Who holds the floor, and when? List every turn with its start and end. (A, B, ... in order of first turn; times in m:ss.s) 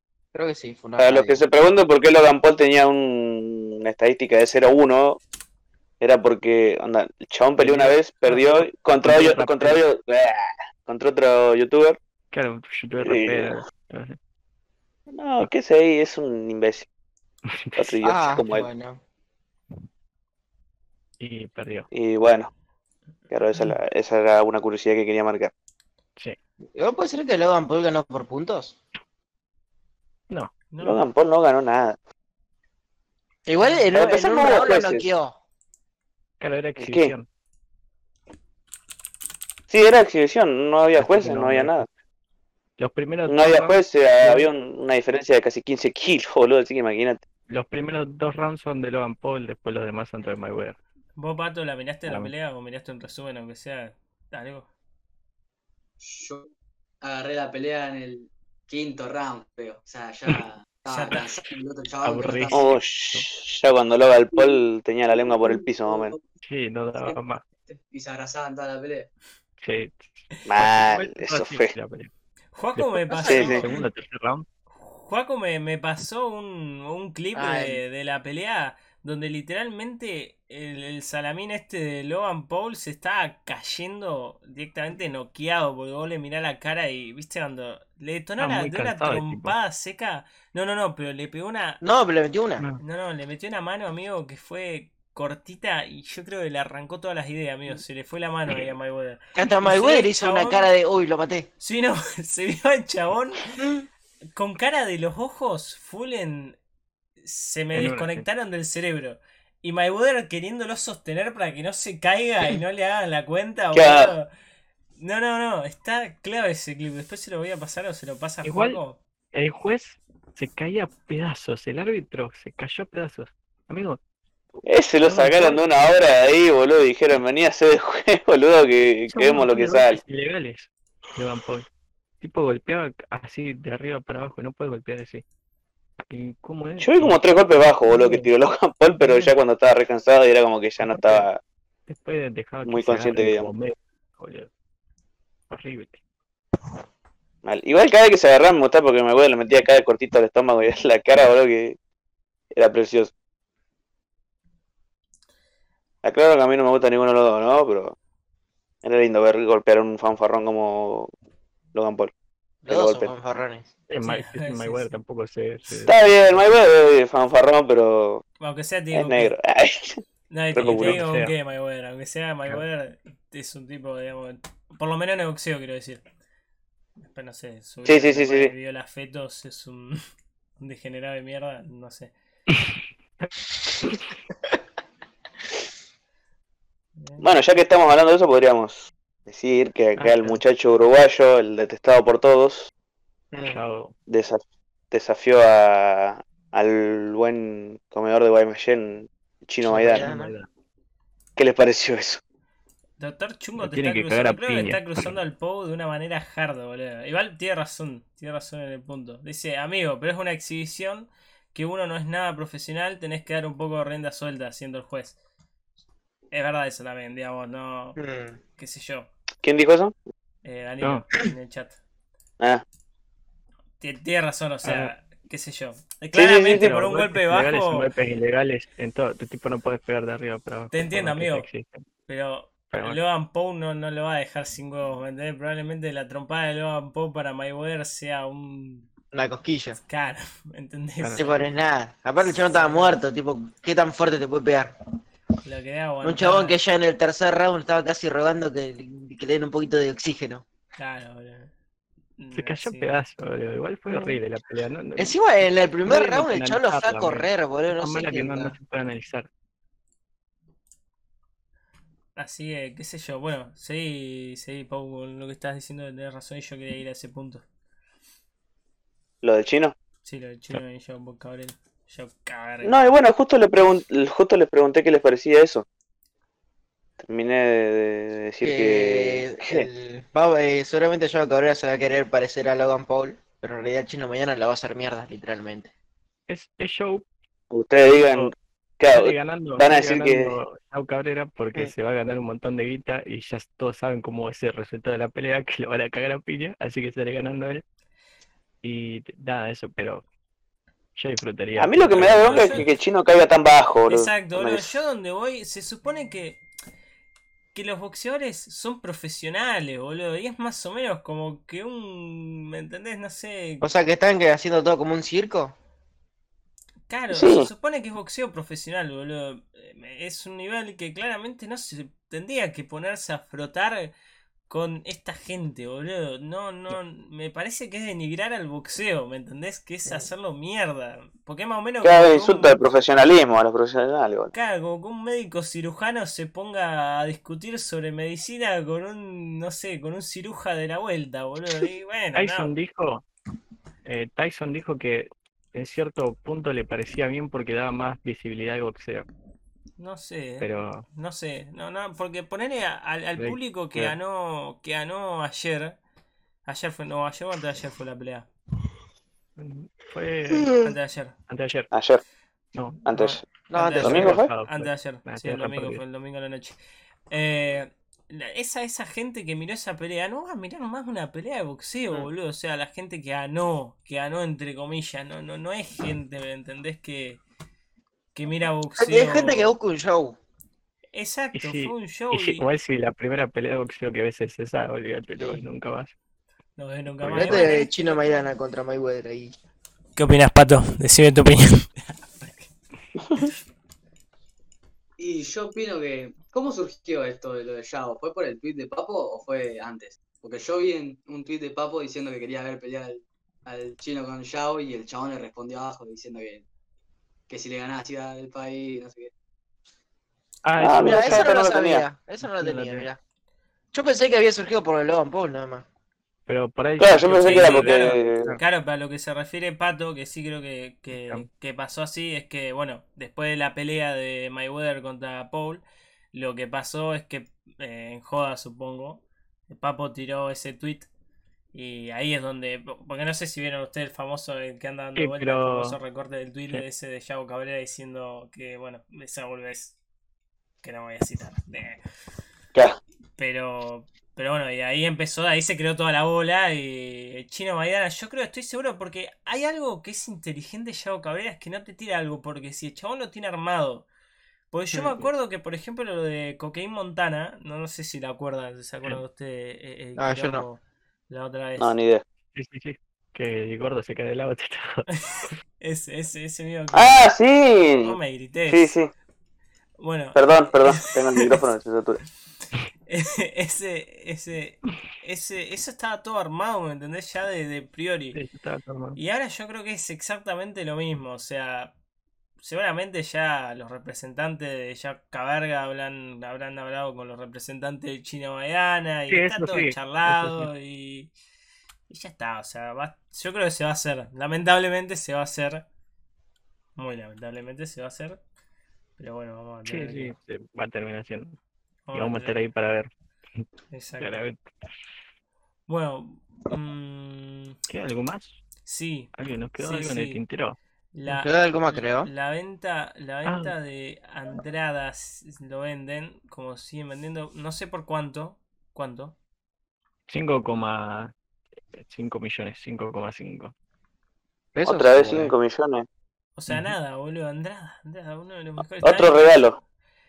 0:00.3-0:01.4 A
0:01.0-0:05.2 B
0:06.0-0:12.0 B
0:07.6-0:09.8 C
0:12.3-0:14.2 C
0:13.0-0:13.6 B
0:15.1-0:16.9 B
0:17.5-0:18.0 C
0:17.8-0:18.7 B
0:18.0-0:19.0 A
0:21.2-0:21.9 C
0:21.9-0:22.5 B
0:23.3-0:25.5 B
0:26.8-0:28.8 A
0:30.7-0:31.0 D
0:30.8-0:32.0 B
0:33.5-0:35.4 A
0:33.6-0:33.9 D
0:33.9-0:35.1 B
0:36.4-0:37.3 C
0:36.8-0:37.1 B
0:39.7-0:41.9 B
0:41.0-0:41.9 C
0:42.8-0:44.5 C
0:43.3-0:47.2 B
0:47.5-0:50.8 C
0:51.2-0:54.7 D
0:52.1-0:52.3 C
0:56.0-0:56.5 E
0:57.0-1:02.8 E
1:00.9-1:01.2 D
1:02.0-1:03.3 C
1:02.5-1:06.1 B
1:04.3-1:04.6 E
1:05.3-1:06.2 E
1:06.4-1:07.4 C
1:07.0-1:09.1 E
1:09.6-1:12.1 C
1:10.5-1:11.7 B
1:12.6-1:13.7 D
1:12.8-1:14.5 C
1:13.1-1:13.6 A
1:13.2-1:13.6 B
1:14.8-1:31.8 D
1:17.4-1:17.8 A
1:28.4-1:29.6 C
1:31.8-1:32.6 A
1:32.8-1:40.7 D
1:39.4-1:41.5 A
1:41.6-1:43.5 D
1:43.6-1:43.9 A
1:44.4-1:46.6 D
1:47.2-1:54.3 D
1:47.7-1:48.3 C
1:53.7-1:54.1 B
1:55.0-1:59.0 D
1:58.4-1:58.8 C
1:59.3-2:04.0 C
2:04.7-2:10.0 B
2:05.0-2:05.6 C
2:09.1-2:11.7 C
2:12.2-2:15.2 C
2:16.0-2:18.3 C
2:16.8-2:21.4 B
2:19.0-2:19.3 C
2:20.8-2:21.3 C
2:21.9-2:24.5 C
2:22.6-2:23.5 B
2:25.5-2:26.0 C
2:27.4-2:31.8 B
2:32.5-2:33.1 B
2:36.0-2:38.0 B
2:38.8-2:41.1 B
2:41.7-2:42.1 B
2:42.6-2:43.7 A
2:42.7-2:43.1 B
2:43.9-2:46.5 C
2:44.0-2:44.9 D
2:45.8-2:48.2 B
2:48.4-2:49.3 D
2:48.9-2:50.0 B
2:50.3-2:56.0 D
2:50.5-2:51.0 B
2:50.6-2:51.3 C
2:57.0-3:00.0 D
2:57.8-2:58.5 B
3:00.6-3:02.1 D
3:07.0-3:07.3 D
3:07.2-3:12.7 B
3:10.0-3:10.4 C
3:13.3-3:13.6 A
3:13.4-3:14.0 C
3:14.1-3:20.1 B
3:19.6-3:20.5 C
3:19.9-3:20.3 A
3:21.4-3:22.2 B
3:23.0-3:35.2 D
3:23.6-3:25.1 C
3:36.3-3:38.0 D
3:38.0-3:38.4 A
3:38.6-3:39.1 D
3:39.4-3:40.0 B
3:40.4-3:41.8 D
3:43.8-3:47.9 D
3:44.6-3:44.9 C
3:46.1-3:46.7 B
3:46.6-3:51.8 C
3:50.7-3:51.5 D
3:52.1-3:58.9 D
3:52.7-3:53.0 C
3:59.1-3:59.8 A
3:59.9-4:01.4 D
4:01.0-4:01.3 C
4:01.2-4:04.8 A
4:02.2-4:03.0 D
4:05.4-4:06.6 D
4:06.0-4:10.4 A
4:10.8-4:11.5 D
4:12.2-4:13.0 D
4:12.3-4:15.2 C
4:13.9-4:14.2 A
4:15.0-4:18.5 A
4:15.8-4:19.3 C
4:22.2-4:27.4 D
4:29.2-4:29.8 B
4:30.0-4:32.8 D
4:32.6-4:35.6 B
4:37.0-4:39.7 B
4:38.4-4:45.7 A
4:46.3-4:47.0 C
4:47.5-4:50.4 B
4:47.9-4:48.3 C
4:48.9-4:57.6 C
4:58.6-5:00.0 C
5:01.0-5:02.7 C
5:01.6-5:04.7 B
5:02.2-5:02.7 D
5:03.9-5:06.4 D
5:07.5-5:13.7 D
5:13.6-5:15.5 A
5:16.9-5:23.9 D
5:17.1-5:17.5 B
5:24.5-5:32.6 D
5:31.8-5:34.3 B
5:34.3-5:42.5 D
5:42.2-5:43.1 C
5:43.8-5:49.1 C
5:49.8-5:55.8 D
5:50.4-5:50.8 C
5:53.2-5:53.9 C
5:56.5-5:58.3 D
5:59.4-6:00.6 C
6:00.3-6:00.7 A
6:00.6-6:01.2 D
6:01.3-6:01.7 C
6:01.7-6:02.0 B
6:02.5-6:02.8 C
6:02.8-6:03.2 B
6:03.0-6:06.6 D
6:03.5-6:04.1 A
6:03.8-6:05.8 C
6:03.8-6:04.3 B
6:07.1-6:17.2 D
6:18.2-6:19.6 D
6:18.8-6:20.2 A
6:20.9-6:22.4 D
6:21.3-6:25.9 C
6:26.6-6:28.0 D
6:27.0-6:27.5 C
6:27.1-6:29.3 A
6:30.0-6:32.5 D
6:35.0-6:46.4 E
6:47.3-6:49.1 E
6:50.4-6:51.3 C
6:50.6-6:51.8 B
6:50.8-6:53.0 A
6:52.2-6:52.9 C
6:53.7-6:55.6 A
6:56.3-6:57.8 C
6:56.8-6:58.3 B
6:57.1-7:10.9 D
7:01.0-7:01.3 C
7:11.5-7:19.8 D
7:15.0-7:15.8 C
7:20.6-7:21.8 D
7:23.2-7:33.9 D
7:34.5-7:41.7 D
7:34.7-7:35.0 A
7:40.0-7:40.4 A
7:41.6-7:42.0 B
7:42.4-7:44.9 C
7:45.1-7:47.0 D
7:46.7-7:48.0 B
7:47.8-7:48.8 D
7:48.5-7:48.9 B
7:49.8-7:51.3 D
7:50.2-7:52.0 B
7:52.9-7:58.2 D
7:58.1-7:59.0 C
7:59.0-8:01.7 D
8:02.4-8:11.1 D
8:09.1-8:10.5 C
8:11.9-8:15.6 D
8:16.8-8:18.2 D
8:19.0-8:20.2 D
8:19.7-8:21.4 C
8:21.9-8:22.4 D
8:21.9-8:22.9 C
8:23.7-8:24.2 D
8:24.0-8:24.4 C
8:25.7-8:27.6 D
8:27.7-8:28.4 C
8:28.7-8:30.2 D
8:29.2-8:30.6 C
8:30.9-8:31.3 D
8:31.1-8:32.1 A
8:32.0-8:39.2 D
8:33.3-8:33.6 C
8:40.1-8:41.1 C
8:41.7-8:43.5 C
8:44.6-8:45.3 A
8:44.7-8:45.9 B
8:46.4-8:49.4 D
8:48.8-8:49.6 B